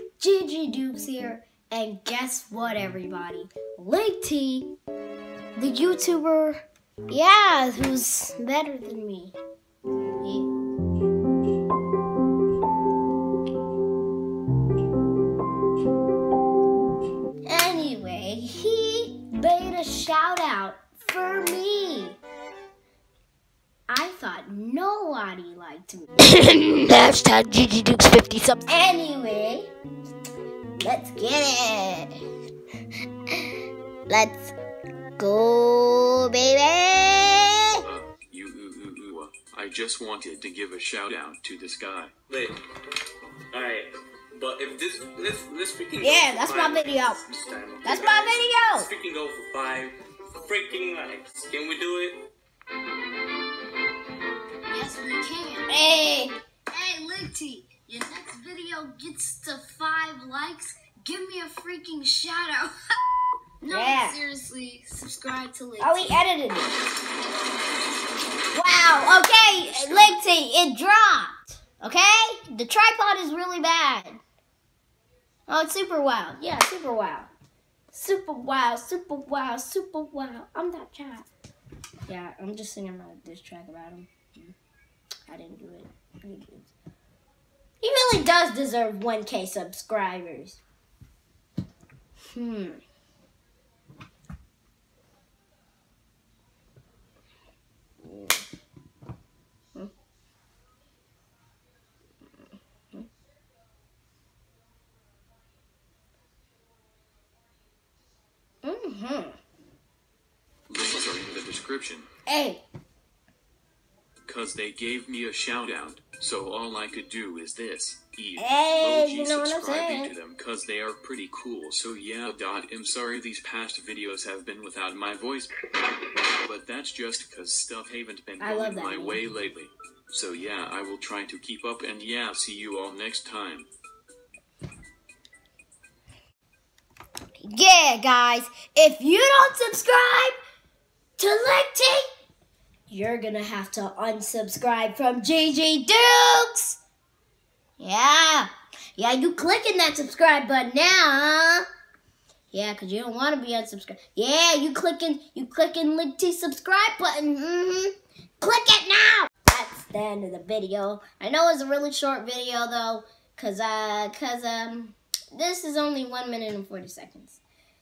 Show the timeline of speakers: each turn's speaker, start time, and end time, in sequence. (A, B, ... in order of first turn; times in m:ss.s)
0:00.2-0:04.8 A
0:05.6-0:09.4 A
0:10.2-0:10.5 A
0:17.4-0:22.2 A
0:23.9-0:26.2 A
0:26.3-0:28.6 B
0:28.6-0:29.7 A
0:30.8-0:32.2 A
0:34.1-0:34.5 A
0:35.2-0:37.8 A
0:37.8-0:42.1 C
0:42.3-0:42.6 D
0:43.5-0:52.3 D
0:46.0-0:47.2 A
0:47.8-0:48.9 A
0:54.7-0:55.8 E
0:55.7-0:56.4 A
0:56.7-1:02.7 E
1:03.6-1:06.1 E
1:03.7-1:04.2 A
1:05.8-1:06.7 A
1:08.5-1:14.2 A
1:08.9-1:10.1 E
1:15.5-1:17.3 A
1:17.9-1:21.3 A
1:22.1-1:24.5 A
1:25.3-1:26.7 A
1:27.8-1:30.6 A
1:32.3-1:32.8 A
1:38.0-1:38.4 A
1:48.6-1:49.4 A
1:50.7-1:52.1 C
1:52.3-1:52.6 A
1:54.3-2:05.5 C
1:58.4-2:00.1 A
2:06.2-2:13.7 C
2:08.4-2:09.2 A
2:17.4-2:20.4 A
2:21.2-2:22.0 A
2:22.9-2:26.8 A
2:27.8-2:31.6 A
2:32.5-2:47.4 A